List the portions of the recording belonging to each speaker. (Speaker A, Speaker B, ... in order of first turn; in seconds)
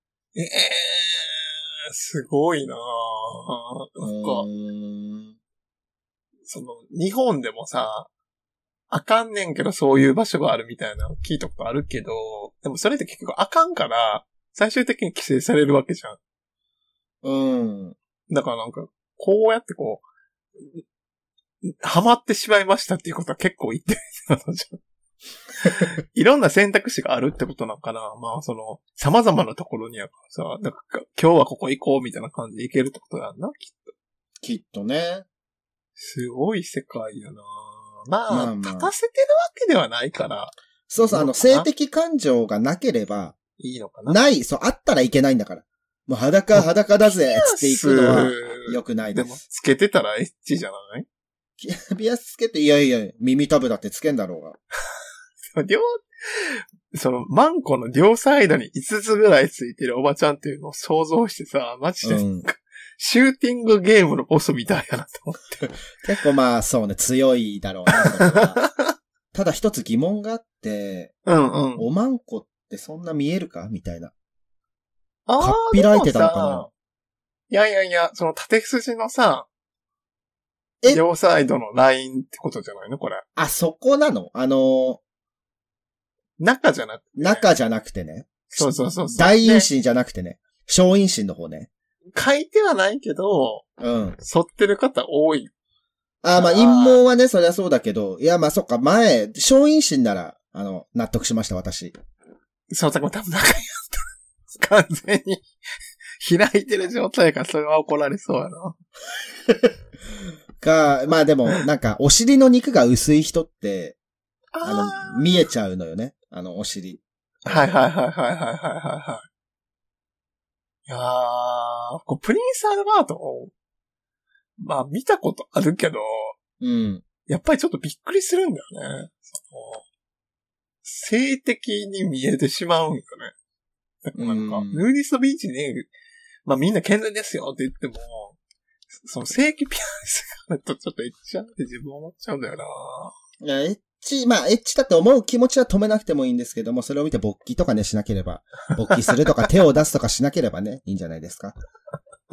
Speaker A: 0.3-4.5, 6.5-8.1, 8.9-16.2, 18.3-20.0, 21.6-24.8, 25.6-33.9, 36.0-41.7, 43.6-44.2, 46.5-51.1, 55.5-65.8, 67.9-68.8, 71.3-71.9, 75.3-76.7, 77.5-79.5, 80.9-83.2, 86.4-87.5, 88.5-89.7, 92.2-93.7, 94.2-95.5, 96.3-97.0, 102.7-105.5, 106.2-108.8, 114.5-115.2, 117.5-119.3, 120.9-123.5, 124.6-126.4, 127.3-129.8, 130.8-133.3, 134.0-135.9, 136.5-138.4, 139.0-143.1
Speaker B: 4.0-5.4, 17.2-18.0, 34.4-35.2, 38.3-38.9, 40.9-43.4, 44.1-49.4, 51.6-54.6, 62.0-62.5, 66.0-68.6, 69.3-71.1, 71.8-74.1, 75.4-76.7, 83.4-85.0, 87.2-91.7, 93.8-94.2, 96.2-102.0, 110.6-114.0, 114.6-117.7, 126.6-127.0, 134.2-134.9, 143.4-151.6